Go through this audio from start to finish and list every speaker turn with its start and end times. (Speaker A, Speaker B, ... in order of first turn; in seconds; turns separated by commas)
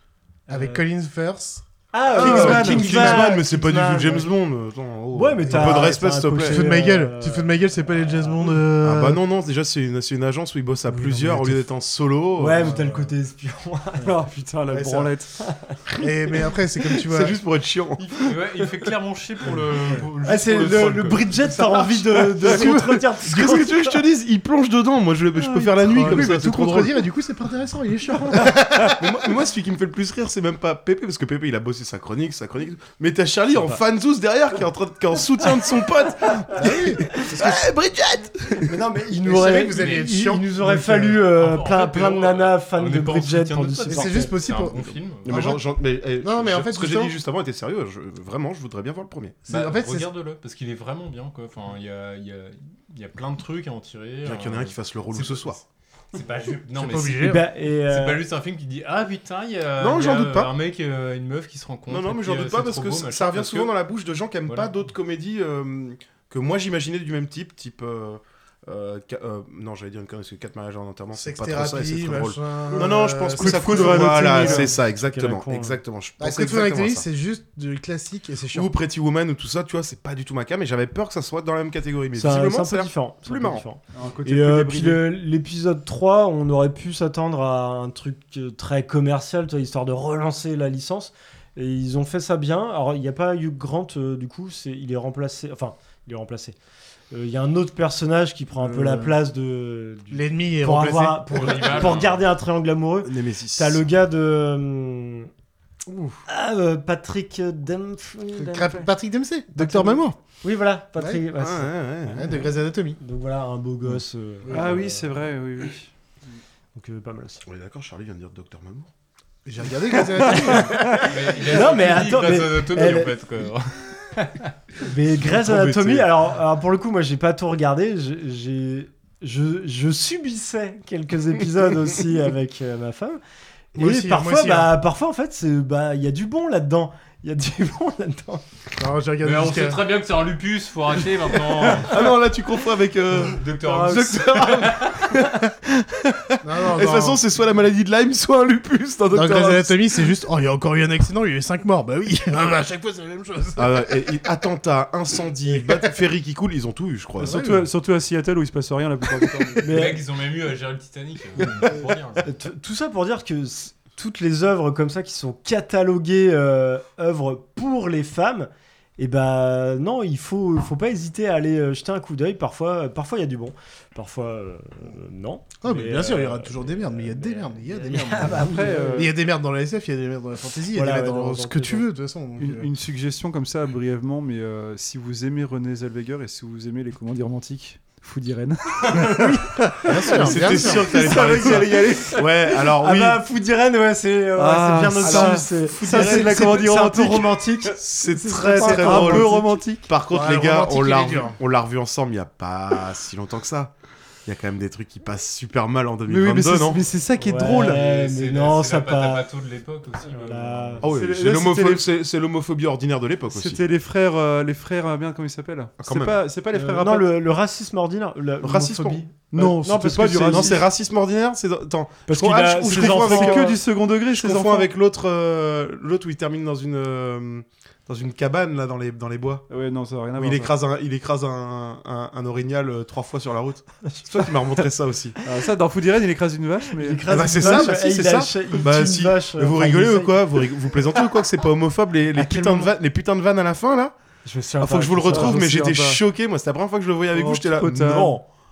Speaker A: 0.5-3.3, Speaker B: 0.5-0.8, Speaker B: 1.9-4.3, Speaker C: 2.1-6.6, Speaker B: 5.1-8.6, Speaker A: 5.5-9.2, Speaker C: 8.8-12.9, Speaker A: 10.9-11.7, Speaker B: 12.4-14.2, Speaker D: 14.0-15.3, Speaker A: 14.7-15.1, Speaker B: 15.4-15.8, Speaker A: 16.0-17.4, Speaker C: 17.1-18.4, Speaker E: 18.1-21.2, Speaker B: 20.2-24.0, Speaker A: 21.4-22.8, Speaker C: 22.4-27.0, Speaker A: 25.9-29.0, Speaker C: 28.8-38.8, Speaker A: 36.5-37.6, Speaker B: 38.6-44.3, Speaker A: 39.2-41.2, Speaker E: 39.7-40.1, Speaker E: 41.3-45.3, Speaker A: 43.9-45.6, Speaker C: 45.2-49.4, Speaker A: 46.2-47.2, Speaker A: 49.5-50.1, Speaker E: 49.5-55.4, Speaker C: 54.2-55.6, Speaker E: 56.1-63.7, Speaker A: 56.7-57.4, Speaker B: 57.2-58.2, Speaker C: 59.8-60.5, Speaker C: 61.9-77.0, Speaker E: 64.5-64.7, Speaker A: 71.1-74.7, Speaker B: 72.7-75.8, Speaker D: 74.1-74.4, Speaker A: 76.2-78.7, Speaker C: 78.5-83.6, Speaker B: 82.2-96.5, Speaker D: 83.9-85.1, Speaker B: 97.1-105.3, Speaker A: 98.5-99.2, Speaker A: 100.1-102.0, Speaker E: 101.3-102.2, Speaker C: 103.0-103.8, Speaker A: 105.9-106.2, Speaker B: 106.3-108.9, Speaker A: 108.5-110.2, Speaker B: 109.5-111.8, Speaker A: 111.0-111.2, Speaker C: 111.3-112.4, Speaker A: 112.1-113.0, Speaker B: 113.0-115.0, Speaker A: 114.4-114.9, Speaker D: 114.5-116.4, Speaker B: 116.7-117.4, Speaker C: 117.5-118.9, Speaker A: 119.4-120.9, Speaker B: 120.2-123.2, Speaker E: 121.0-124.5, Speaker B: 124.8-133.2, Speaker C: 125.2-126.1, Speaker A: 133.7-134.8, Speaker B: 133.8-138.4, Speaker A: 138.8-139.9, Speaker E: 139.2-142.1, Speaker C: 141.7-150.0, Speaker E: 143.3-145.1, Speaker A: 146.4-147.2, Speaker A: 149.1-154.1, Speaker C: 153.6-157.7, Speaker A: 155.5-155.9, Speaker A: 157.2-157.6, Speaker D: 157.2-159.9, Speaker B: 159.6-160.0, Speaker E: 159.7-162.3, Speaker B: 162.2-179.1, Speaker A: 175.6-182.7, Speaker D: 178.1-179.1, Speaker B: 180.7-181.9, Speaker D: 182.4-192.2, Speaker B: 188.8-199.5, Speaker A: 189.8-190.8, Speaker C: 190.2-193.2, Speaker D: 194.3-197.7, Speaker C: 195.0-196.5, Speaker C: 197.8-203.7, Speaker D: 198.2-199.9, Speaker A: 200.1-201.4, Speaker C: 204.2-206.8, Speaker D: 206.1-207.8, Speaker B: 207.2-209.2, Speaker E: 207.4-210.8, Speaker B: 210.1-210.8, Speaker C: 210.8-213.7, Speaker D: 210.8-211.9, Speaker D: 213.3-217.1, Speaker C: 215.8-216.3, Speaker B: 216.5-220.6, Speaker C: 218.4-219.0, Speaker D: 219.3-220.7, Speaker C: 220.3-229.5, Speaker B: 222.1-223.6, Speaker D: 222.7-224.7, Speaker D: 229.5-230.5, Speaker C: 230.1-235.2, Speaker D: 235.2-237.7, Speaker B: 236.7-240.4, Speaker C: 237.1-243.9, Speaker B: 242.2-242.7, Speaker B: 244.2-245.4, Speaker C: 244.6-248.1, Speaker D: 245.1-246.0, Speaker D: 247.1-248.2, Speaker B: 247.7-248.2